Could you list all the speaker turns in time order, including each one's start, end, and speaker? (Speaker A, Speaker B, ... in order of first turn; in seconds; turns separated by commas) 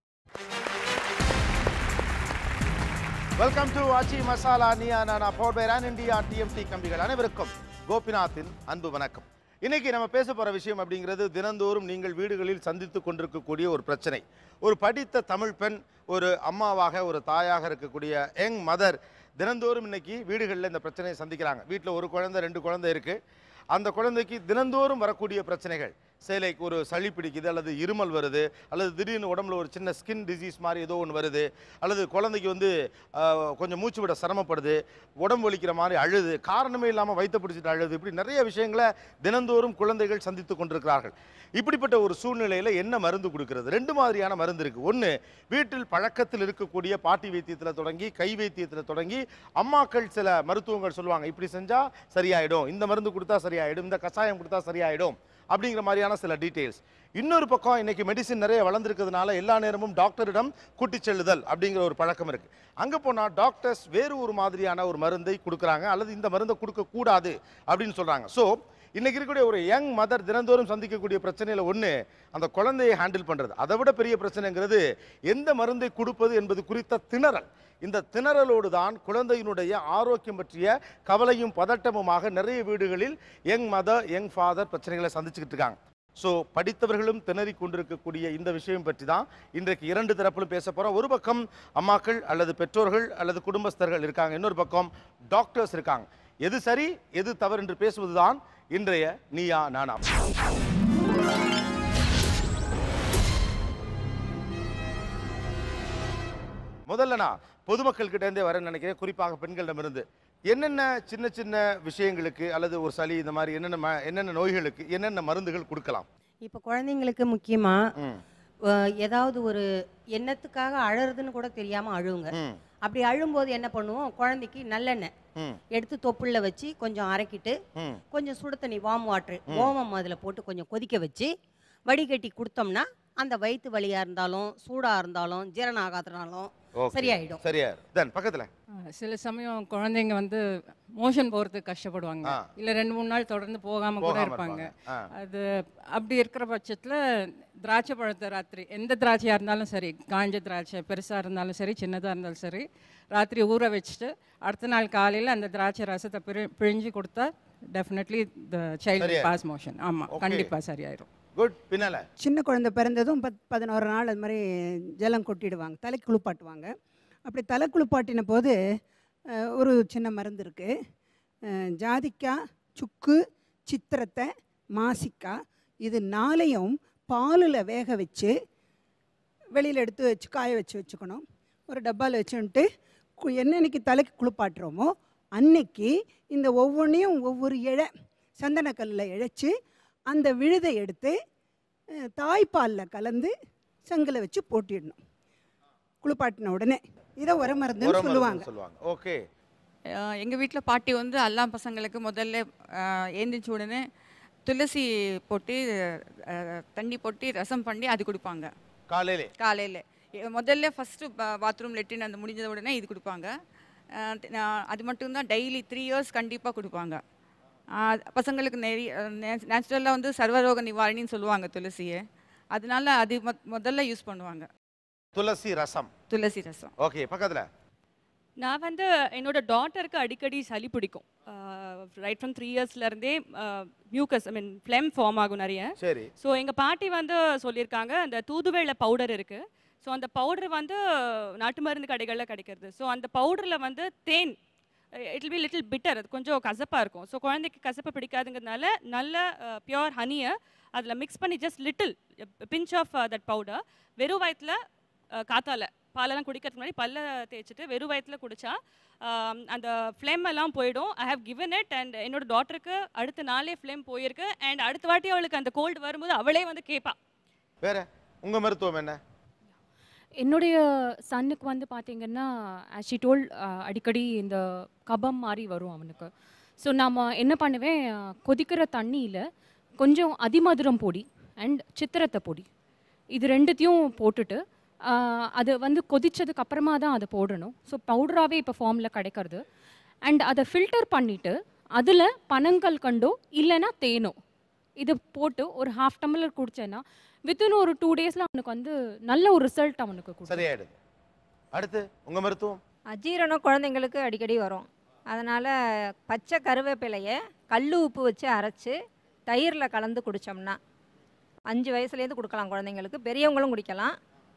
Speaker A: 3.4-23.2, Speaker A: 23.7-100.2, Speaker A: 106.9-116.1, Speaker B: 116.4-117.8, Speaker B: 119.0-119.7, Speaker B: 120.2-122.3, Speaker A: 122.3-122.6, Speaker B: 122.8-125.1, Speaker B: 125.7-127.5, Speaker B: 128.1-131.3, Speaker B: 131.9-137.4, Speaker A: 136.8-138.5, Speaker C: 138.9-140.4, Speaker C: 140.9-161.1, Speaker A: 144.0-145.1, Speaker A: 159.0-159.3, Speaker A: 160.1-160.5, Speaker A: 161.3-162.1, Speaker D: 162.2-164.4, Speaker D: 165.0-166.7, Speaker D: 167.3-168.5, Speaker D: 169.6-170.7, Speaker D: 171.8-178.3, Speaker D: 179.6-182.7, Speaker D: 183.2-189.5, Speaker D: 190.1-191.2, Speaker D: 192.2-193.3, Speaker D: 193.9-195.0, Speaker D: 196.0-198.5, Speaker A: 197.8-199.2, Speaker E: 200.0-203.8, Speaker E: 204.5-208.5, Speaker A: 208.9-209.3, Speaker E: 209.4-213.3, Speaker E: 214.0-217.0, Speaker E: 217.8-222.0, Speaker E: 222.6-224.5, Speaker A: 225.2-225.9, Speaker E: 226.1-226.7, Speaker A: 226.8-227.5, Speaker F: 228.4-244.4, Speaker A: 235.8-236.1, Speaker F: 245.1-254.6, Speaker F: 255.2-266.9, Speaker A: 267.6-269.0, Speaker G: 270.2-279.2, Speaker G: 279.8-282.5, Speaker G: 283.1-289.4, Speaker G: 290.1-294.2, Speaker G: 294.8-300.5, Speaker A: 300.3-300.7, Speaker A: 301.5-302.6, Speaker H: 302.9-305.5, Speaker H: 306.1-308.8, Speaker H: 309.3-310.6, Speaker H: 311.5-314.0